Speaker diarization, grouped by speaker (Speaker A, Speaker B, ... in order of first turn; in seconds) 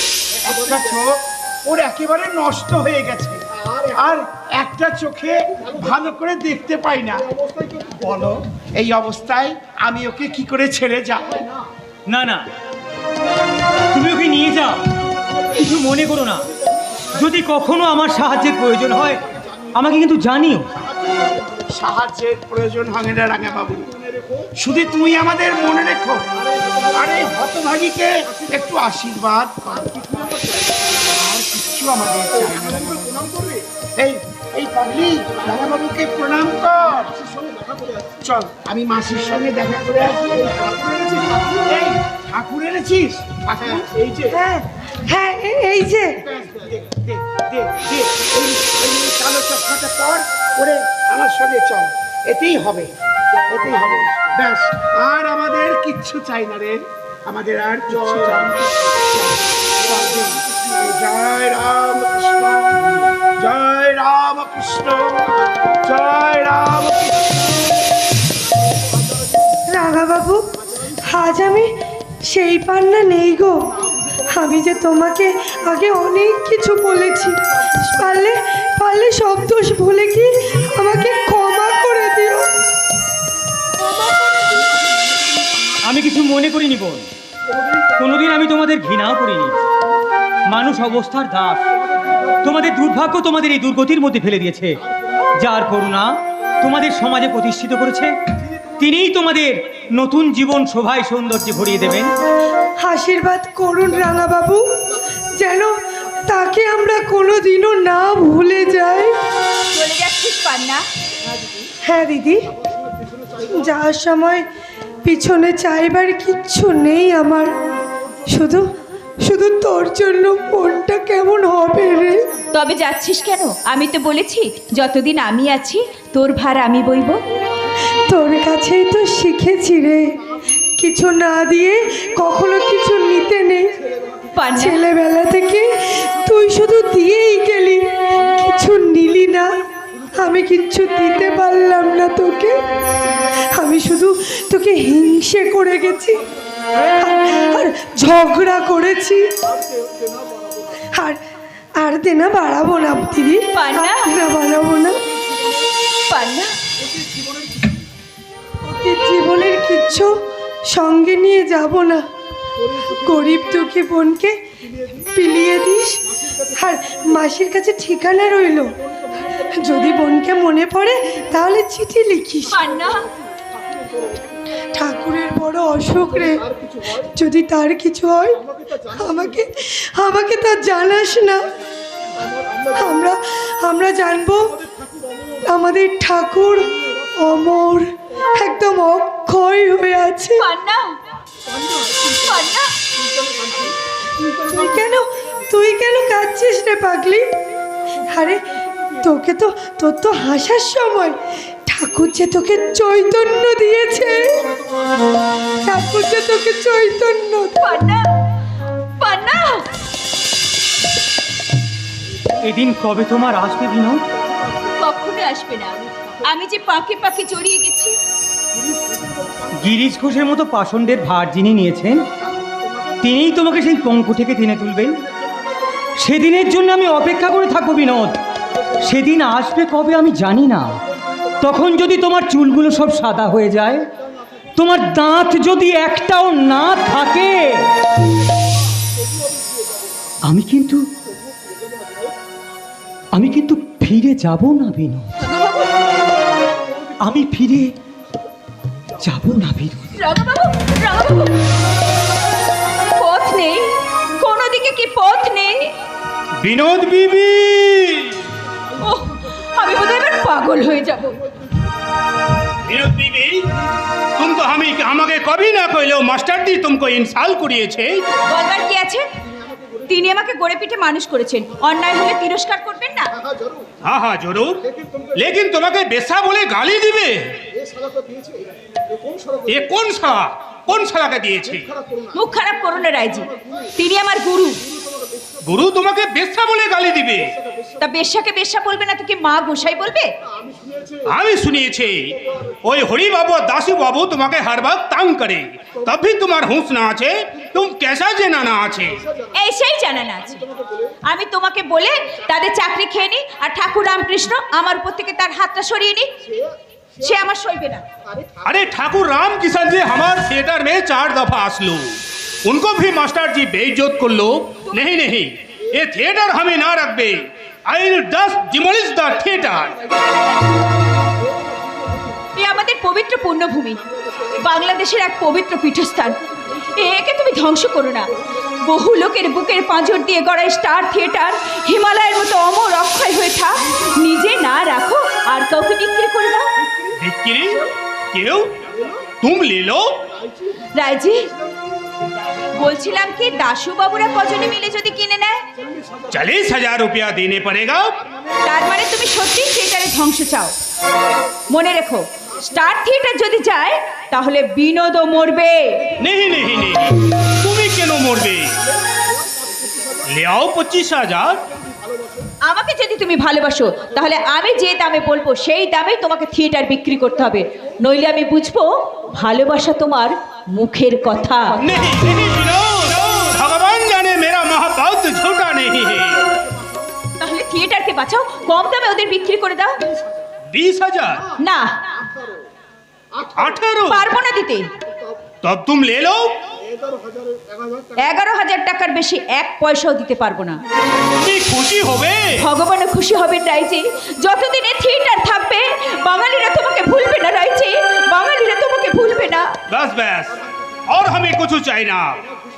Speaker A: 0.4-7.3, 7.8-11.5, 21.7-23.9, 24.6-26.3, 26.9-33.4, 34.0-37.2, 38.2-44.2, 46.2-52.9, 53.5-67.4
Speaker B: 12.1-12.4, 13.9-14.8, 15.4-16.4, 17.1-19.2, 19.8-20.7, 85.8-87.1, 88.0-89.5, 90.5-91.7, 92.4-94.8, 95.4-98.2, 98.8-102.1, 212.4-214.0, 219.6-222.0, 223.0-225.0, 226.0-228.2, 228.8-230.8, 231.4-233.9, 234.6-237.6, 240.2-240.9, 243.1-245.1, 247.0-247.7, 249.0-250.0
Speaker C: 44.3-46.2, 69.7-70.5, 71.0-71.7, 72.3-82.5, 102.8-105.8, 106.3-109.1, 111.9-112.6, 113.4-114.5, 115.0-117.5, 118.3-118.7, 119.2-122.2, 128.1-130.2, 130.8-133.8, 134.6-139.7, 140.2-142.6, 143.6-146.3, 146.9-149.3, 150.9-151.2, 151.8-155.0, 158.7-162.1, 162.8-164.4, 164.9-172.6, 174.8-181.5, 182.7-184.7, 185.5-190.4, 194.3-197.3, 198.1-198.4, 199.0-204.5, 205.7-207.6
Speaker D: 109.7-110.9, 122.5-127.2, 134.4-134.8, 153.5-154.1, 156.1-156.5, 172.5-173.1, 190.4-190.9, 192.1-192.7, 207.6-208.1, 209.0-209.6, 214.8-218.0, 245.2-245.7, 250.0-251.4, 252.9-255.7, 258.8-261.2, 268.3-269.1, 269.9-273.1, 282.1-284.6, 287.8-290.1, 299.4-300.5, 301.1-306.1, 307.0-307.8, 322.4-328.1, 328.6-336.5, 340.8-341.3, 342.6-345.4, 348.4-350.5, 351.5-355.9, 362.5-371.7, 377.2-379.8, 381.4-381.8, 383.9-384.7, 388.0-390.6, 392.4-399.6
Speaker E: 256.4-258.2, 262.7-263.5, 264.2-268.0, 273.8-277.4, 279.5-281.7, 285.5-287.4, 291.1-299.0, 308.4-319.8, 337.0-338.6, 339.2-340.0, 346.1-347.9, 356.0-358.6, 360.1-361.4, 371.6-376.3, 380.5-381.3, 383.4-384.1, 385.4-386.4, 391.2-392.4, 399.7-402.2